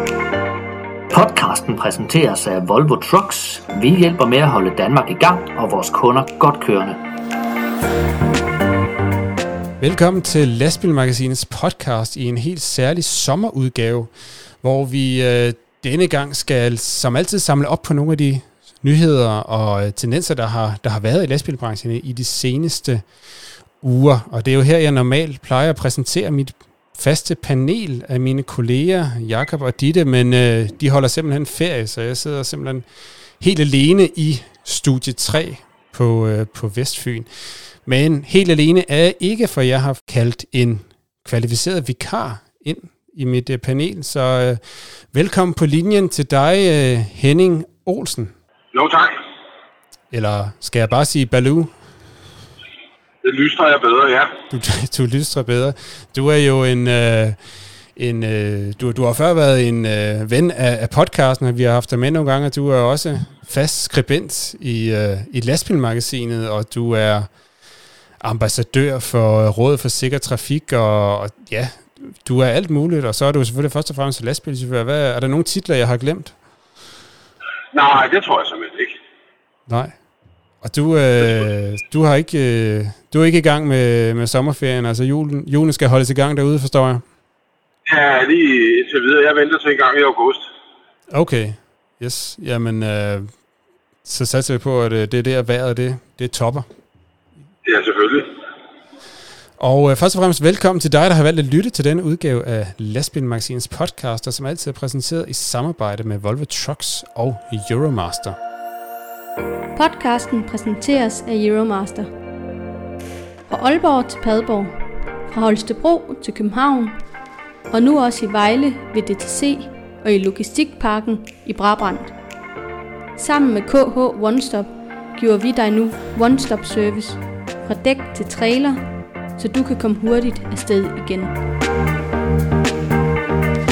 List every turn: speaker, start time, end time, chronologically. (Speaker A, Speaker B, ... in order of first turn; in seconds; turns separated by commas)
Speaker A: 1.1-7.0, Speaker B: 9.8-14.1, Speaker B: 14.6-23.1, Speaker B: 23.8-32.8, Speaker B: 33.4-37.3, Speaker B: 37.8-44.6, Speaker B: 45.1-48.3, Speaker C: 48.7-49.2, Speaker B: 50.1-51.7, Speaker C: 53.2-54.3, Speaker B: 54.5-57.4, Speaker B: 58.0-67.3, Speaker B: 68.2-76.3, Speaker C: 77.7-79.0, Speaker B: 79.7-80.0, Speaker B: 80.6-87.0, Speaker C: 87.9-90.5, Speaker B: 91.1-93.3, Speaker B: 94.0-96.7, Speaker C: 97.6-98.3, Speaker B: 99.6-108.4, Speaker D: 109.8-112.1, Speaker D: 113.5-114.8, Speaker D: 115.3-117.0, Speaker D: 117.7-122.1, Speaker D: 123.2-128.8, Speaker D: 129.4-131.4